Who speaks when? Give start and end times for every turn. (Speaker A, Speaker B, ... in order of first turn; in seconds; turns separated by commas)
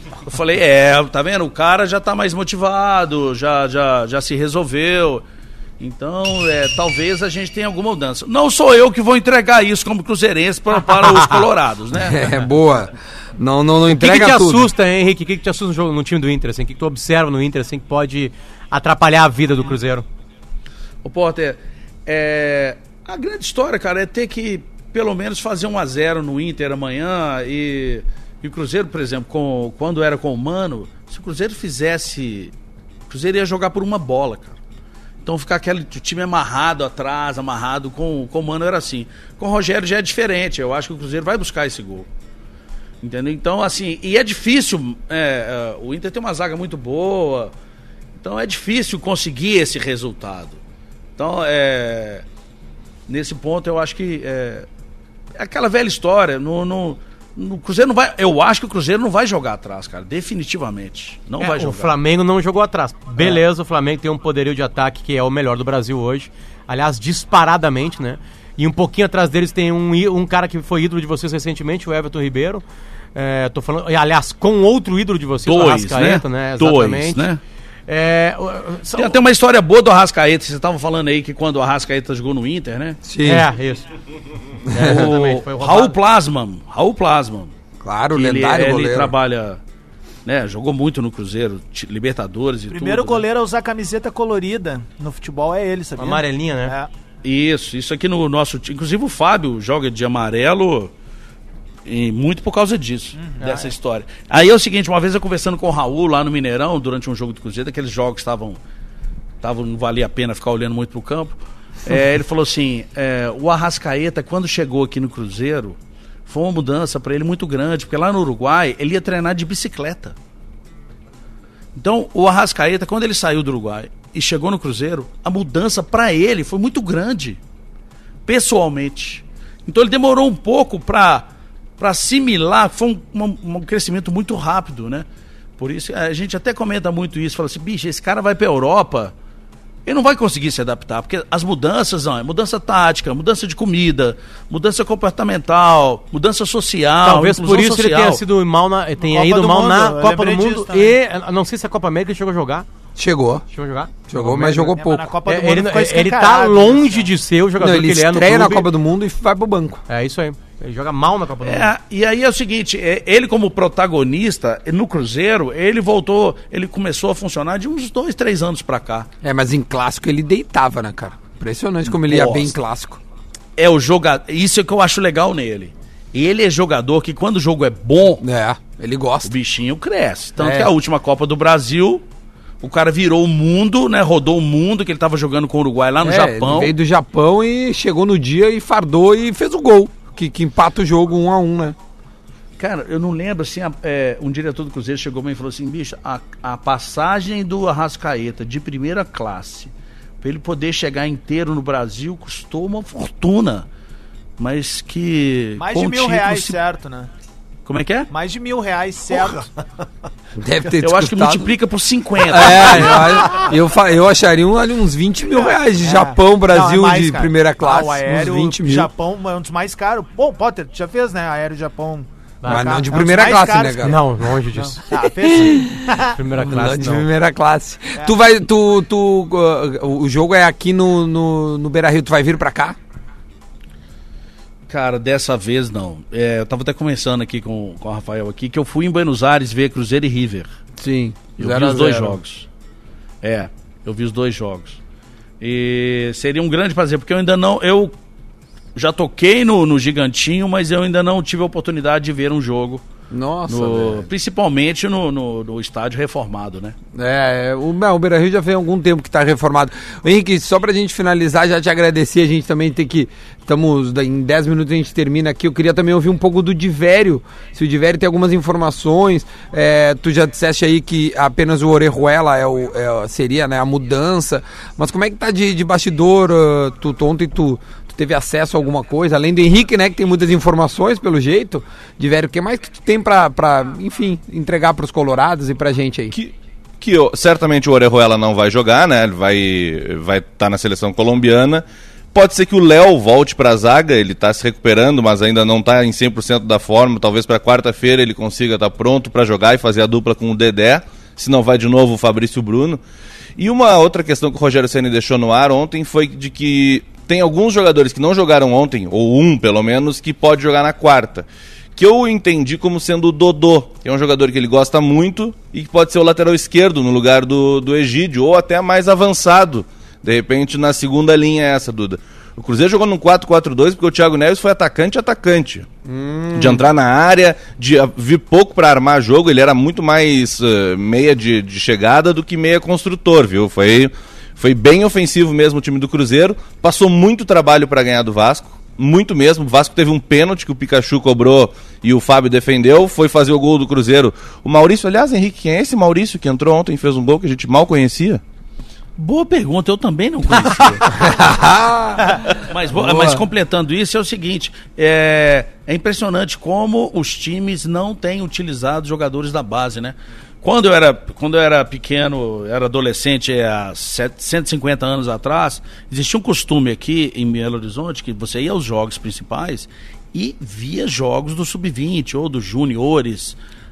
Speaker A: 0.3-5.2, Speaker A: 5.8-12.4, Speaker B: 11.9-14.7, Speaker C: 13.9-20.1, Speaker A: 21.0-32.5, Speaker A: 33.1-34.6, Speaker A: 35.2-42.1, Speaker A: 43.0-47.5, Speaker A: 48.2-50.6, Speaker A: 51.2-52.2, Speaker A: 53.1-54.7, Speaker A: 55.4-61.9, Speaker C: 61.4-77.3, Speaker A: 75.5-77.4, Speaker C: 77.9-79.2, Speaker A: 79.0-83.0, Speaker B: 83.0-83.5, Speaker C: 83.3-83.9, Speaker C: 84.7-86.0, Speaker A: 84.8-87.5, Speaker B: 87.8-89.2, Speaker A: 88.2-89.6, Speaker A: 90.2-93.3, Speaker D: 92.7-96.9, Speaker C: 96.0-96.8, Speaker A: 97.2-100.9, Speaker A: 101.8-108.6, Speaker D: 103.2-103.7, Speaker A: 109.4-120.2, Speaker A: 121.8-127.4, Speaker A: 128.3-139.1, Speaker A: 139.9-148.2, Speaker C: 147.0-152.7, Speaker D: 149.0-151.0, Speaker B: 153.0-153.4, Speaker C: 153.5-154.7, Speaker B: 154.1-155.1, Speaker D: 154.6-157.1, Speaker C: 155.3-158.7, Speaker B: 157.6-159.8, Speaker C: 159.9-161.7, Speaker A: 161.4-169.1, Speaker B: 169.2-173.0, Speaker A: 171.9-172.6, Speaker A: 173.6-178.2, Speaker B: 178.2-179.3, Speaker A: 179.2-182.1, Speaker B: 180.4-180.7, Speaker A: 182.6-186.8, Speaker B: 186.0-191.8, Speaker A: 192.6-203.7, Speaker A: 204.4-206.6, Speaker D: 205.6-207.1, Speaker A: 207.7-208.1, Speaker D: 208.1-209.5, Speaker B: 210.4-211.5, Speaker A: 210.8-213.4, Speaker B: 212.2-218.9, Speaker D: 215.3-226.2, Speaker C: 222.4-222.8, Speaker B: 222.5-224.0, Speaker C: 223.8-224.8, Speaker B: 225.1-232.8, Speaker C: 226.1-227.1, Speaker A: 234.7-240.5, Speaker B: 240.8-242.2, Speaker A: 241.4-242.5, Speaker A: 243.2-244.8, Speaker A: 245.4-248.0, Speaker A: 248.8-252.8, Speaker B: 253.1-254.1, Speaker A: 253.5-256.8, Speaker B: 256.9-286.2, Speaker E: 286.1-302.8, Speaker E: 303.4-325.7, Speaker B: 325.9-326.6, Speaker E: 326.3-348.2, Speaker A: 349.0-350.9, Speaker B: 350.9-353.2, Speaker A: 352.4-373.4